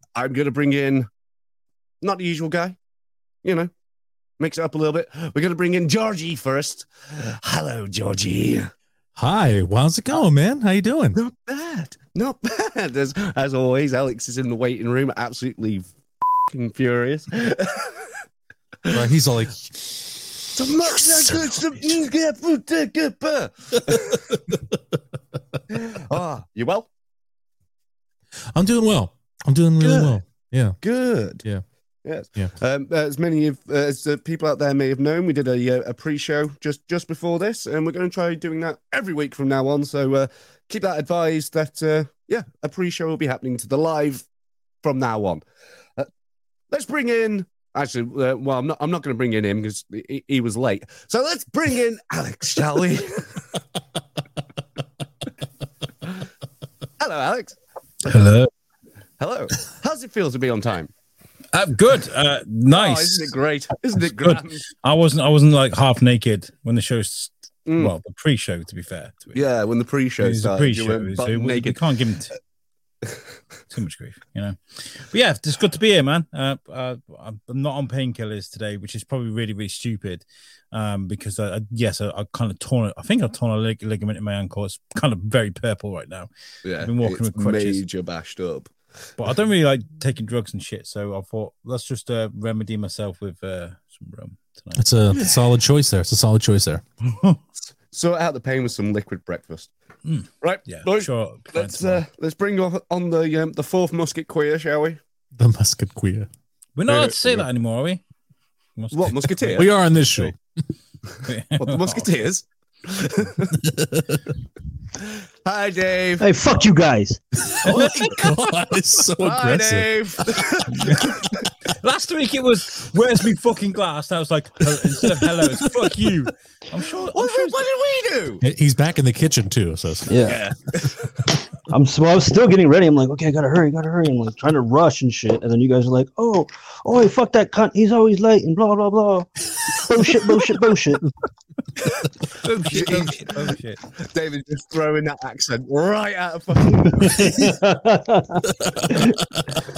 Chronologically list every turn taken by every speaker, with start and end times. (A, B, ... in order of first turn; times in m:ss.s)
0:00.2-0:01.1 A
0:02.0-0:02.8 A
0:03.4-0:03.7 A
0:04.4-0:08.7 A
0:09.2-0:11.2 B
0:11.1-0:15.9 A
0:16.5-0:18.2 A
0:18.9-0:19.6 B
0:20.5-0:24.4 A
0:21.1-0:21.4 B
0:23.9-0:24.7 B
0:25.7-0:26.9 A
0:28.5-0:30.8 B
0:29.8-0:30.2 A
0:30.8-0:31.4 A
0:32.0-0:44.2 A
0:44.8-0:45.4 A
0:46.7-0:53.4 A
0:57.0-0:57.6 A
0:58.0-0:58.5 C
0:59.2-1:00.9 A
1:01.5-1:03.3 C
1:02.7-1:04.6 A
1:04.2-1:09.4 C
1:07.6-1:07.9 A
1:09.3-1:11.8 A
1:10.2-1:12.3 C
1:13.7-1:26.3 C
1:26.6-1:28.7 A
1:26.8-1:27.8 C
1:29.2-1:34.9 C
1:34.7-1:36.8 B
1:35.1-1:35.4 A
1:37.0-1:37.4 C
1:37.9-1:39.7 A
1:40.0-1:42.0 C
1:40.4-1:45.0 A
1:45.4-1:46.3 B
1:46.8-1:48.0 C
1:46.9-1:47.1 A
1:48.8-1:50.3 C
1:48.9-1:49.7 A
1:49.5-1:50.4 B
1:51.2-1:52.1 C
1:51.6-1:53.5 A
1:53.5-1:54.3 B
1:55.0-1:56.3 A
1:56.2-1:57.9 D
1:57.4-2:00.6 B
1:57.6-1:58.8 C
1:59.2-2:01.4 A
2:00.7-2:07.6 C
2:04.7-2:06.1 B
2:07.1-2:08.4 A
2:08.4-2:10.2 B
2:10.1-2:10.4 D
2:10.2-2:11.2 A
2:11.7-2:21.1 D
2:20.0-2:20.3 B
2:21.8-2:22.1 A
2:22.3-2:23.8 C
2:22.6-2:23.5 A
2:24.0-2:27.6 A
2:26.9-2:29.2 D
2:28.6-2:29.6 B